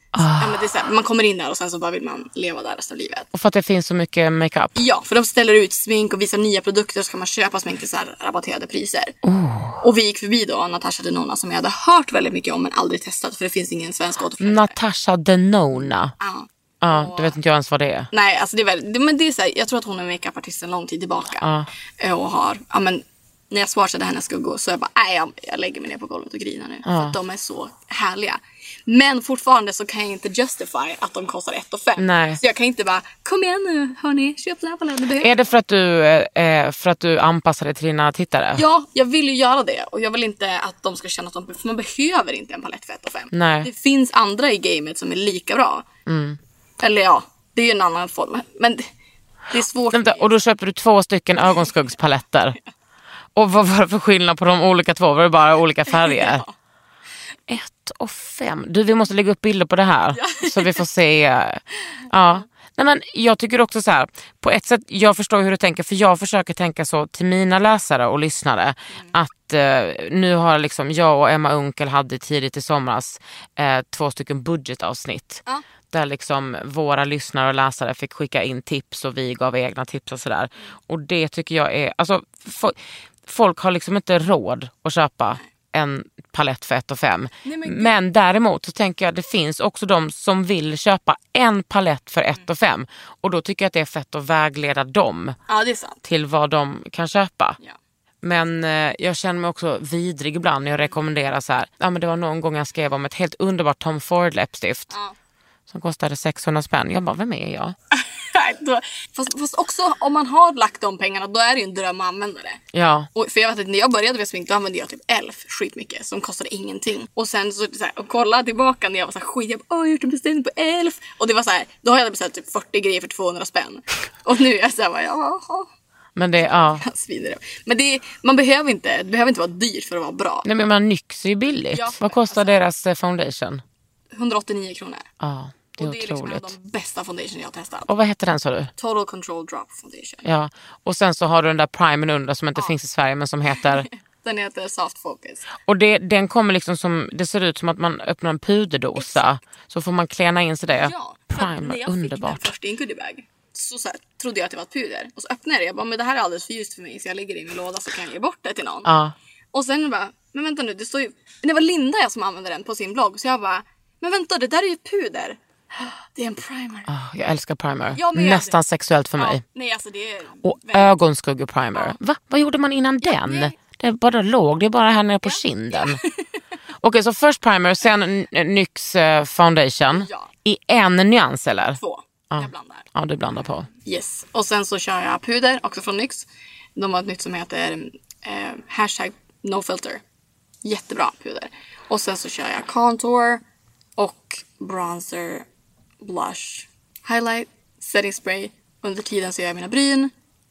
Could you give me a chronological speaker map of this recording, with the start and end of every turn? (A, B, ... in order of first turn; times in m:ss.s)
0:00.2-0:00.6 A
0:00.4-0:03.3 B
0:03.3-0:04.8 A
0:04.8-0:09.2 B
0:09.2-0:09.8 A
0:09.8-0:14.8 B
0:14.4-0:16.1 A
0:16.2-0:17.4 B
0:16.8-0:18.1 A
0:18.1-0:21.5 B
0:21.4-0:21.7 A
0:22.0-0:35.4 B
0:26.9-0:27.2 A
0:32.0-0:32.4 A
0:35.2-0:38.6 A
0:38.6-0:45.9 B
0:43.3-0:43.7 A
0:46.1-0:46.4 A
0:46.8-0:48.9 B
0:49.5-0:50.3 B
0:49.9-0:52.6 A
0:53.4-0:56.4 A
0:55.9-0:56.5 B
0:57.5-1:35.4 A
1:00.1-1:00.8 B
1:27.4-1:28.0 B
1:35.5-1:36.0 B
1:36.0-1:37.6 A
1:38.2-1:44.9 A
1:45.7-1:47.8 A
1:47.9-1:52.6 B
1:52.7-1:53.1 A
1:53.2-2:05.7 B
2:06.2-2:06.8 A
2:06.4-2:10.5 B
2:10.4-2:13.6 A
2:11.7-2:12.6 B
2:14.1-2:15.1 B
2:15.2-2:16.5 A
2:15.8-2:17.9 B
2:17.9-2:18.7 A
2:18.8-2:20.2 B
2:20.2-2:23.9 A
2:23.6-2:25.5 B
2:25.7-2:32.5 A
2:29.0-2:29.3 B
2:30.7-2:38.9 B
2:38.8-2:39.1 A
2:39.5-2:46.9 B
2:46.9-2:49.4 A
2:48.0-2:48.6 B
2:49.2-2:51.0 B
2:50.4-2:56.0 A
2:53.0-2:53.6 B
2:55.2-2:56.1 B
2:56.8-3:01.8 A
2:59.9-3:00.3 B
3:01.8-3:02.9 B
3:02.3-3:03.7 A
3:03.7-3:10.0 B
3:10.6-3:13.4 B
3:14.0-3:15.5 B
3:16.0-3:20.1 B